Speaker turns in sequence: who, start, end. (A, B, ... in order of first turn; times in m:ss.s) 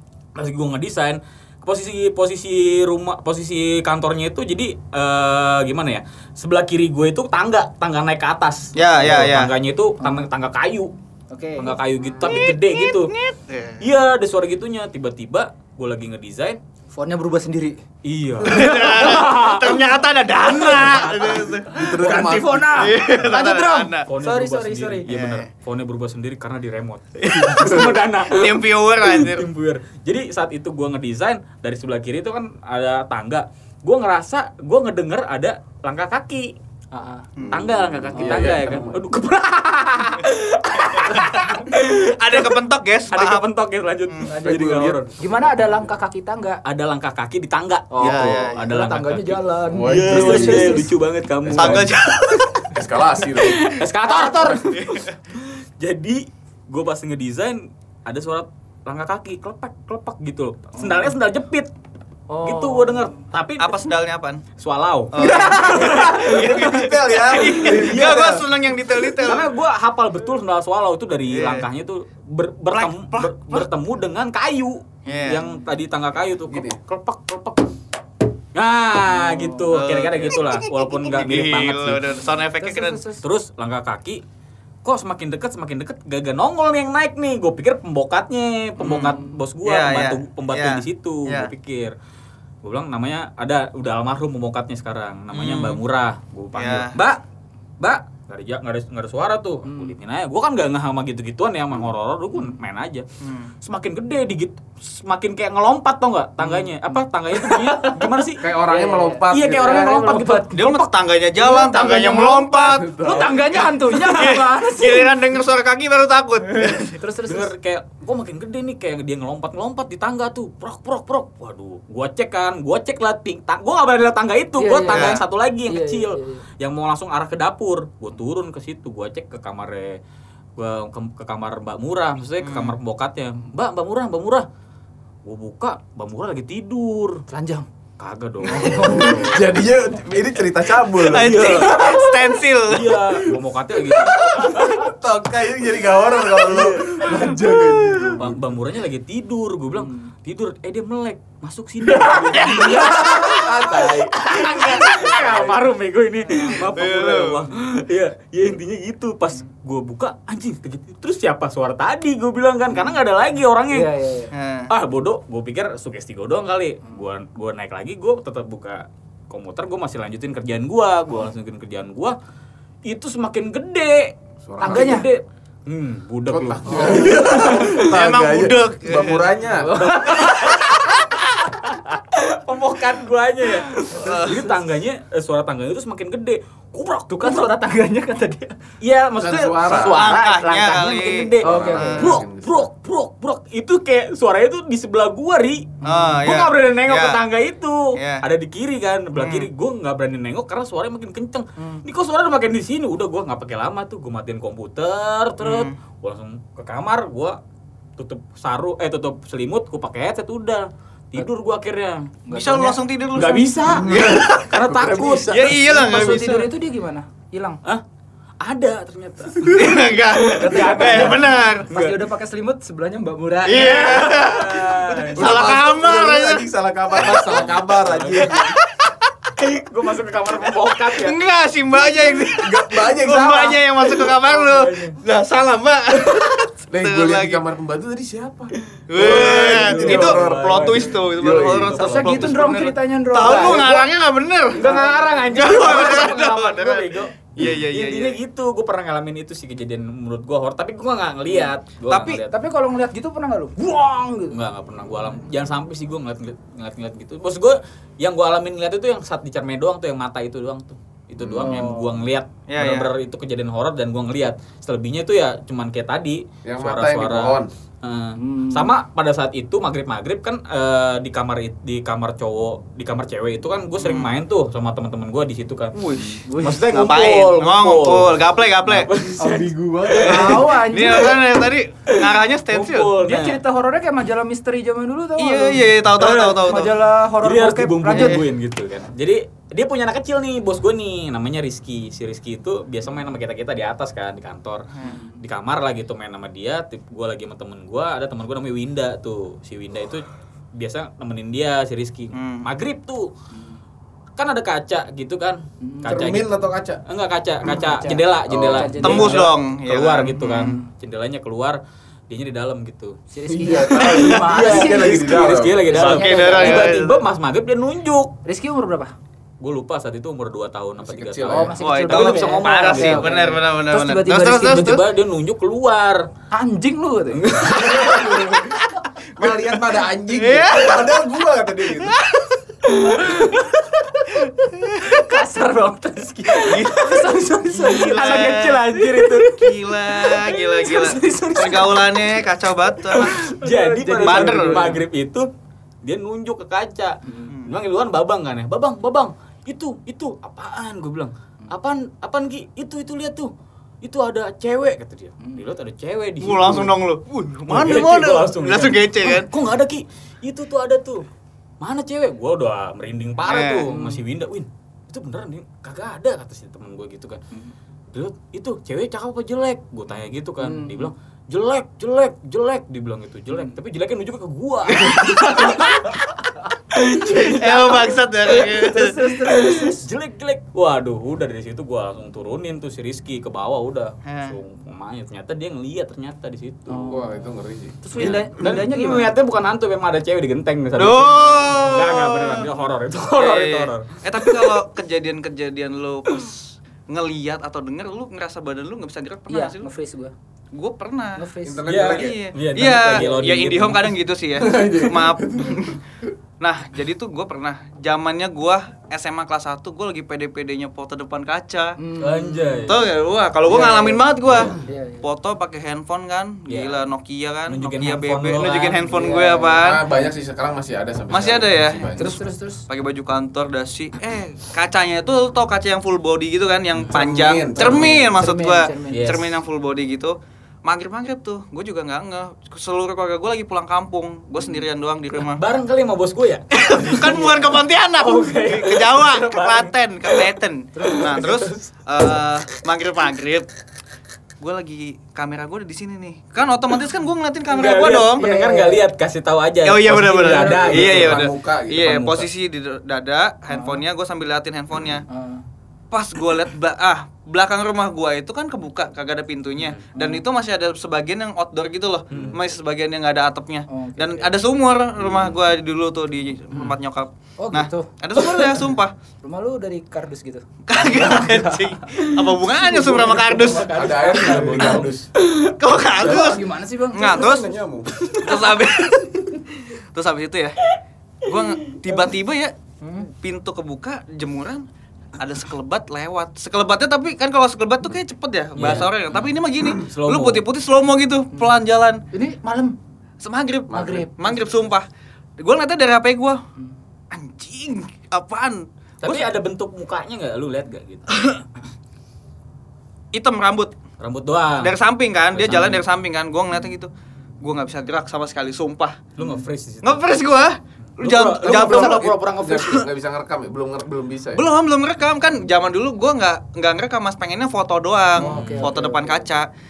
0:00.4-0:10.9 A
0:08.8-0:09.5 B
0:10.0-0:10.2 C
0:11.3-0:11.8 C
0:11.6-0:13.1 A
0:12.2-0:13.8 B
0:13.8-0:16.6 A
0:16.9-0:17.8 C
0:18.0-0:23.4 A
0:18.4-0:21.7 B
0:21.7-0:22.9 D
0:22.7-0:24.1 B
0:23.2-0:25.1 C
0:24.0-0:36.5 A
0:25.1-0:25.4 B
0:27.2-0:29.5 B
0:27.5-0:27.9 D
0:36.9-0:37.3 C
0:37.4-0:37.6 B
0:37.4-0:39.0 D
0:37.5-0:42.6 A
0:38.1-0:38.9 C
0:41.1-0:41.4 B
0:42.0-0:43.4 B
0:43.1-0:45.1 A
0:44.2-0:46.6 C
0:44.4-0:45.9 D
0:46.6-0:52.5 A
0:47.9-0:50.9 C
0:48.0-0:48.7 B
0:49.7-0:50.9 D
0:51.4-0:51.9 D
0:51.5-0:52.6 B
0:52.7-0:53.8 D
0:53.3-1:01.7 A
0:54.1-0:54.6 C
0:54.7-0:55.1 B
1:00.8-1:01.1 C
1:02.3-1:03.2 C
1:02.4-1:03.8 A
1:03.6-1:04.4 B
1:04.6-1:08.5 A
1:05.1-1:09.5 B
1:05.2-1:08.4 D
1:09.1-1:17.7 A
1:11.3-1:11.6 B
1:12.7-1:13.7 B
1:15.0-1:15.4 B
1:16.5-1:16.8 D
1:18.5-1:22.2 A
1:19.2-1:19.6 C
1:19.7-1:23.0 B
1:22.6-1:23.2 C
1:23.2-1:24.2 A
1:24.8-1:31.9 A
1:28.8-1:31.5 B
1:32.6-1:37.2 A
1:35.3-1:35.8 B
1:36.5-1:37.0 B
1:37.8-1:43.0 A
1:39.6-1:40.0 C
1:43.2-1:43.5 B
1:43.6-1:48.4 A
1:46.4-1:50.6 C
1:48.4-1:50.0 D
1:49.3-1:50.9 A
1:50.5-1:53.2 B
1:51.4-1:52.5 A
1:51.4-1:55.1 C
1:52.6-1:53.4 D
1:53.9-1:57.0 B
1:56.8-1:57.5 C
1:57.3-2:10.0 A
2:04.6-2:06.4 C
2:04.9-2:05.2 B
2:10.6-2:14.4 A
2:12.4-2:12.7 B
2:15.2-2:17.2 A
2:17.3-2:17.7 C
2:18.0-2:19.5 A
2:18.4-2:19.3 C
2:18.7-2:22.0 D
2:21.0-2:23.0 B
2:21.0-2:24.9 A
2:23.9-2:28.4 D
2:26.4-2:27.4 A
2:28.1-2:43.9 A
2:29.8-2:30.1 C
2:31.9-2:35.6 D
2:32.3-2:33.1 B
2:36.6-2:37.4 B
2:43.7-2:44.3 C
2:44.3-2:44.7 B
2:44.7-2:52.2 A
2:52.8-2:57.9 A
2:54.4-2:55.0 D
2:54.6-2:55.1 C
2:56.3-2:59.8 D
2:57.6-2:59.3 B
2:59.5-3:01.0 C
2:59.8-3:07.5 A
3:03.8-3:04.4 C
3:03.9-3:04.5 B
3:07.2-3:08.5 C
3:08.8-3:27.4 A
3:09.2-3:10.1 D
3:09.8-3:12.1 B
3:11.4-3:12.7 D
3:11.4-3:12.1 C
3:15.8-3:16.2 C
3:15.8-3:17.2 B
3:18.0-3:18.2 B
3:19.1-3:19.5 B
3:25.4-3:25.7 B
3:28.0-3:32.1 A
3:32.3-3:32.8 C
3:32.3-3:34.3 B
3:33.1-3:35.9 A
3:33.7-3:35.2 D
3:35.2-3:36.5 B
3:35.6-3:37.6 C
3:38.4-3:42.0 A
3:39.4-3:41.7 B
3:40.4-3:44.1 C
3:43.4-3:46.4 B
3:43.5-3:45.7 A
3:45.2-3:48.6 D
3:47.0-3:47.3 B
3:47.0-3:48.4 A
3:49.4-3:51.2 A
3:50.9-3:57.4 B
3:52.3-3:53.6 D
3:53.9-3:55.0 A
3:56.7-4:01.8 D
3:58.8-4:02.7 A
3:58.9-4:04.6 B
4:01.7-4:03.9 C
4:03.2-4:03.8 A
4:04.5-4:12.3 A
4:04.6-4:05.2 C
4:05.3-4:08.2 B
4:11.9-4:12.2 B
4:12.2-4:14.3 C
4:14.3-4:35.8 A
4:21.2-4:21.5 D
4:21.3-4:22.0 C
4:22.5-4:22.9 B
4:26.4-4:27.5 D
4:28.2-4:28.7 C
4:33.8-4:34.1 B
4:35.7-4:38.9 B
4:36.1-4:36.8 C
4:36.4-4:41.2 A
4:39.2-4:40.4 D
4:40.0-4:41.2 C
4:40.0-4:42.9 B
4:41.9-4:43.4 A
4:43.0-4:48.2 C
4:45.2-4:46.7 B
4:46.0-4:46.5 A
4:47.2-4:54.7 A
4:47.9-4:48.2 B
4:54.8-4:55.2 C
4:55.2-5:03.1 A
5:02.1-5:02.5 B
5:03.3-5:03.6 C
5:04.2-5:06.3 A
5:05.6-5:06.0 C
5:05.8-5:06.8 D
5:06.8-5:13.0 A
5:07.5-5:09.3 C
5:08.3-5:08.9 D
5:08.8-5:10.5 B
5:10.4-5:10.6 C
5:13.1-5:16.7 C
5:13.3-5:15.8 D
5:13.8-5:14.2 B
5:13.9-5:18.1 A
5:15.7-5:17.0 B
5:18.2-5:18.9 C
5:19.4-5:23.3 A
5:20.8-5:21.6 D
5:21.3-5:24.7 C
5:21.6-5:24.8 B
5:24.4-5:26.1 A
5:26.3-5:28.1 C
5:27.1-5:28.0 A
5:27.4-5:28.6 D
5:29.2-5:32.0 D
5:29.2-5:29.6 B
5:30.1-5:31.0 B
5:32.7-5:33.6 A
5:32.9-5:33.4 C
5:34.6-5:34.9 B
5:34.8-5:39.3 C
5:36.3-5:42.3 A
5:36.4-5:38.6 B
5:39.4-5:43.2 B
5:40.6-5:41.6 C
5:42.8-5:45.3 A
5:43.0-5:44.8 C
5:44.0-5:44.8 B
5:45.8-5:53.3 A
5:47.0-5:47.3 C
5:47.3-5:47.5 B
5:53.8-5:56.8 A
5:56.2-5:59.3 B
5:57.5-6:01.0 A
6:01.6-6:07.2 A
6:03.2-6:03.7 B
6:03.7-6:04.0 C
6:07.9-6:16.1 A
6:10.4-6:10.9 C
6:14.7-6:15.5 B
6:16.7-6:18.5 A
6:17.1-6:19.0 B
6:17.2-6:17.4 C
6:18.3-6:19.8 C
6:19.2-6:26.9 A
6:24.1-6:24.4 B
6:26.7-6:29.1 C
6:26.9-6:28.1 D
6:27.9-6:34.6 A
6:30.8-6:32.5 B
6:33.2-6:39.7 B
6:39.3-6:40.1 C
6:40.5-6:41.2 B
6:41.2-6:41.8 C
6:41.4-6:42.2 D
6:41.6-6:44.0 A
6:41.8-6:45.8 B
6:44.4-6:45.7 D
6:46.4-6:51.8 B
6:51.8-6:52.7 C
6:52.0-6:52.9 A
6:52.7-6:59.8 B
6:53.5-6:54.0 C
6:54.3-6:54.5 D
6:54.6-6:55.0 C
6:56.5-6:56.9 A
6:57.5-6:59.0 A
6:58.9-7:00.1 C
6:59.6-7:02.2 D
7:01.1-7:15.4 B
7:01.9-7:02.6 C
7:06.7-7:07.0 A
7:06.9-7:08.0 D
7:07.6-7:08.0 A
7:07.6-7:09.1 C
7:08.9-7:09.4 A
7:15.1-7:22.2 A
7:16.6-7:23.5 B
7:20.8-7:21.2 C
7:24.4-7:28.3 B
7:27.5-7:32.3 A
7:28.2-7:28.8 C
7:29.6-7:35.0 B
7:30.6-7:31.9 D
7:33.5-7:33.8 C
7:35.1-7:35.4 C
7:35.9-7:48.9 B
7:39.6-7:39.8 A
7:39.9-7:40.2 C
7:42.1-7:42.4 A
7:43.7-7:44.3 C
7:47.4-7:48.5 C
7:49.2-7:51.7 C
7:50.6-7:53.9 B
7:52.6-7:54.9 A
7:53.7-7:55.1 D
7:55.3-7:57.5 B
7:56.0-7:57.4 C
7:57.0-7:58.0 D
7:58.0-7:58.9 A
7:58.1-8:00.6 B
8:01.2-8:02.1 A
8:01.2-8:04.7 B
8:05.2-8:12.0 B
8:08.6-8:10.4 A
8:12.1-8:12.8 C
8:13.2-8:14.9 B
8:13.7-8:14.1 D
8:13.7-8:14.5 C
8:15.4-8:16.4 B
8:17.1-8:19.3 B
8:19.0-8:21.4 A
8:21.1-8:21.4 B
8:23.1-8:23.7 B
8:24.0-8:24.7 A
8:24.6-8:29.0 B
8:25.3-8:25.8 A
8:29.2-8:30.1 A
8:29.8-8:32.7 B
8:31.0-8:32.9 A
8:31.4-8:34.4 D
8:34.3-8:39.5 B
8:38.2-8:39.3 C
8:38.2-8:38.8 A